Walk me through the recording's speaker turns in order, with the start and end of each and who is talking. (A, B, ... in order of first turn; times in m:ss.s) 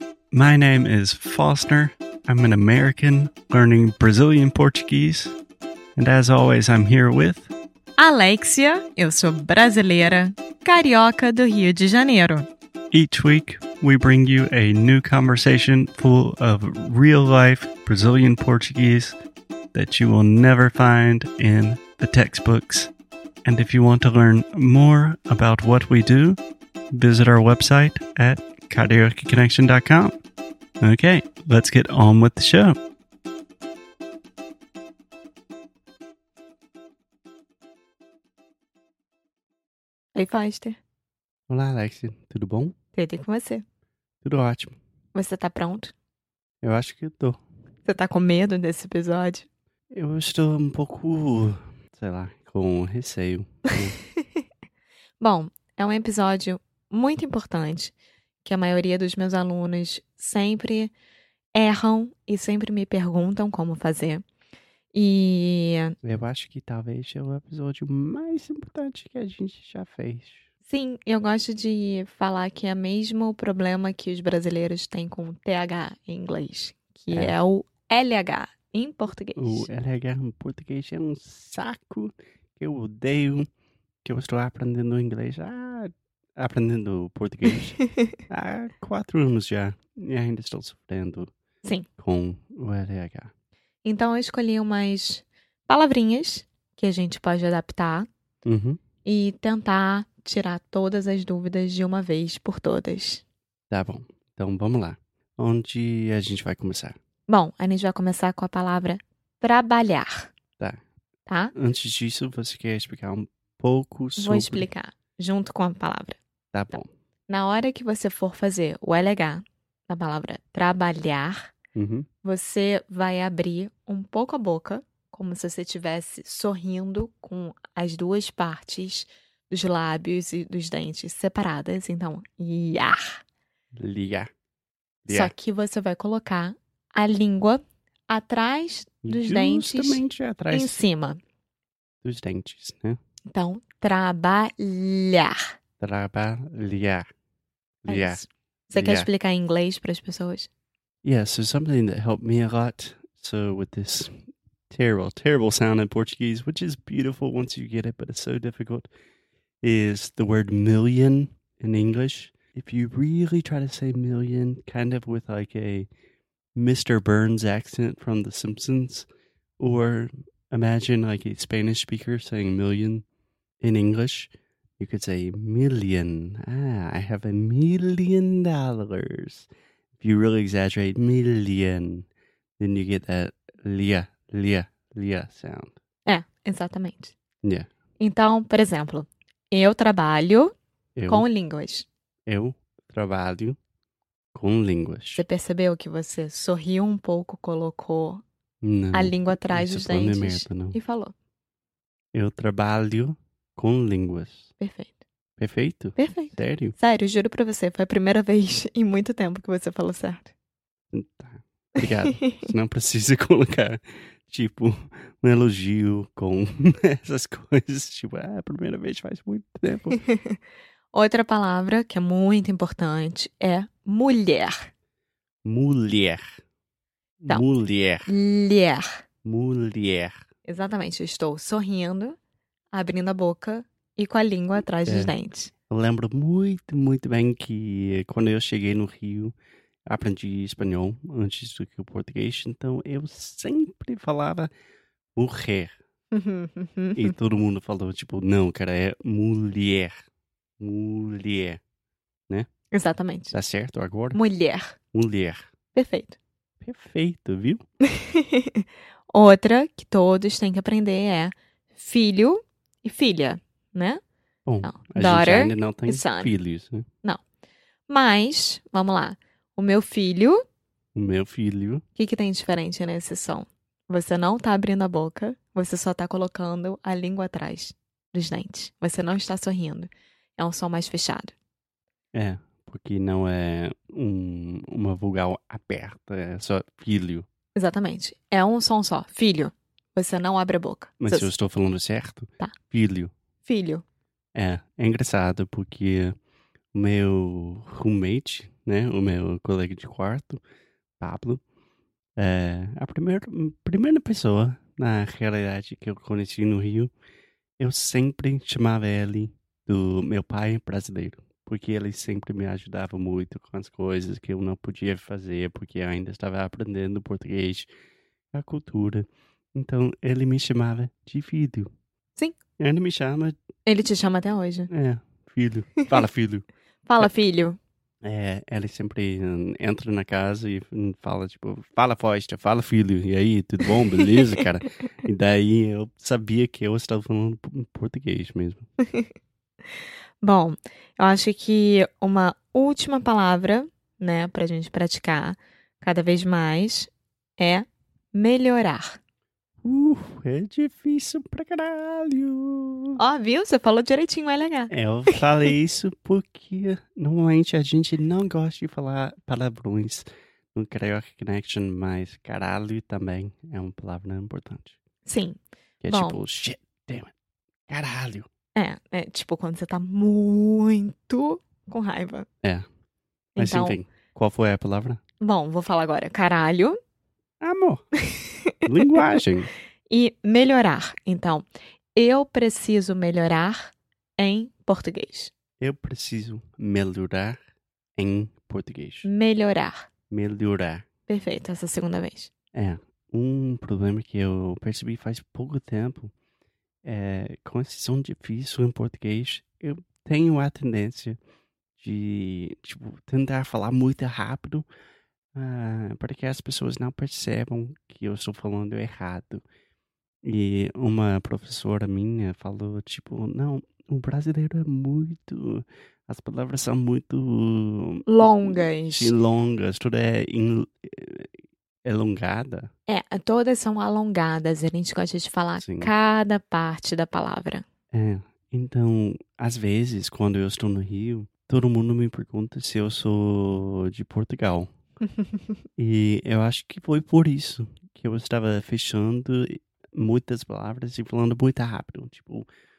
0:00.3-0:05.4 A
0:06.0-0:07.5 A
0:08.0-0:12.5 B
0:12.9-0:19.2 A
0:19.7-0:22.9 A
0:23.4-0:26.4 A
0:26.9-0:30.2 A
0:30.8-0:32.8 A
0:40.2-0:40.8 B
0:41.5-0:42.8 A
0:42.9-0:43.6 B
0:44.2-0:44.8 A
0:45.1-0:45.9 B
0:46.6-0:47.4 A
0:47.8-0:49.5 B
0:49.9-0:54.0 A
0:55.2-1:00.9 B
1:01.5-1:04.2 B
1:04.9-1:06.0 B
1:06.0-1:10.4 A
1:10.7-1:19.7 B
1:19.4-1:23.5 A
1:24.0-1:31.3 A
1:32.0-1:33.3 A
1:33.8-1:38.1 B
1:38.4-1:38.8 A
1:39.0-1:43.2 B
1:43.7-1:47.0 A
1:47.3-1:50.3 B
1:51.3-1:51.5 B
1:51.6-1:54.7 A
1:54.2-1:56.2 B
1:56.5-1:56.9 A
1:57.3-2:01.5 B
2:01.8-2:02.1 A
2:02.2-2:13.0 B
2:13.8-2:14.3 A
2:15.1-2:15.3 A
2:15.1-2:21.2 B
2:19.0-2:20.8 A
2:22.0-2:23.0 A
2:23.3-2:25.4 B
2:25.8-2:27.1 A
2:27.8-2:29.1 A
2:27.9-2:30.5 B
2:31.0-2:34.1 A
2:34.7-2:38.9 A
2:39.6-2:45.9 A
2:46.6-2:49.1 A
2:49.6-2:53.0 A
2:53.6-2:59.5 A
3:00.0-3:02.1 A
3:02.6-3:05.8 A
3:06.1-3:07.1 B
3:08.0-3:10.5 B
3:11.0-3:11.3 A
3:11.1-3:11.9 B
3:12.3-3:13.6 A
3:14.3-3:15.2 A
3:15.2-3:18.2 B
3:18.6-3:20.8 A
3:18.9-3:21.1 B
3:22.1-3:24.5 A
3:24.6-3:25.0 B
3:25.4-3:26.8 A
3:26.0-3:30.3 B
3:30.9-3:40.0 A
3:32.2-3:32.5 B
3:39.9-3:40.4 B
3:40.9-3:44.7 B
3:45.4-3:46.2 A
3:47.2-3:48.1 A
3:48.1-3:48.9 B
3:49.2-3:50.2 A
3:50.5-3:52.2 B
3:52.7-3:55.5 B
3:54.9-3:55.1 A
3:55.7-3:59.4 A
3:59.9-4:04.5 A
4:05.2-4:05.8 A
4:06.1-4:07.1 B
4:07.0-4:10.0 A
4:10.6-4:11.6 A
4:12.7-4:13.3 B
4:13.3-4:14.2 A
4:14.1-4:14.8 B
4:14.9-4:15.4 A
4:15.7-4:16.2 B
4:16.6-4:17.6 A
4:17.9-4:24.0 B
4:24.5-4:26.9 A
4:24.6-4:26.3 B
4:27.9-4:30.4 B
4:31.0-4:31.8 A
4:32.0-4:41.3 B
4:42.1-4:47.3 A
4:47.6-4:51.3 B
4:51.0-4:53.1 A
4:53.4-4:53.8 B
4:54.4-4:56.1 A
4:56.7-5:00.4 A
5:01.0-5:01.4 A
5:02.2-5:06.9 A
5:07.6-5:17.7 A
5:18.3-5:21.7 A
5:22.6-5:23.4 A
5:23.7-5:24.7 B
5:24.7-5:26.5 A
5:26.9-5:27.6 B
5:28.0-5:38.7 A
5:40.2-5:49.0 B
5:49.6-5:53.0 A
5:53.0-5:55.2 B
5:54.7-6:04.8 A
6:05.0-6:06.2 B
6:05.8-6:07.1 A
6:07.7-6:08.3 A
6:08.6-6:12.3 B
6:13.4-6:13.8 B
6:13.4-6:15.0 A
6:15.2-6:16.8 B
6:17.4-6:17.8 A
6:18.1-6:18.5 B
6:18.6-6:19.5 A
6:19.9-6:25.3 B
6:25.6-6:27.4 A
6:28.0-6:29.1 A
6:29.0-6:29.9 B
6:30.1-6:30.8 A
6:31.1-6:32.3 B
6:32.5-6:36.1 A
6:36.8-6:41.2 A
6:41.8-6:44.7 A
6:45.4-6:49.4 A
6:50.2-7:01.3 A
6:58.1-6:59.1 B
7:01.8-7:02.7 A
7:02.9-7:07.6 B
7:05.6-7:05.9 A
7:07.9-7:14.7 A
7:15.8-7:22.5 A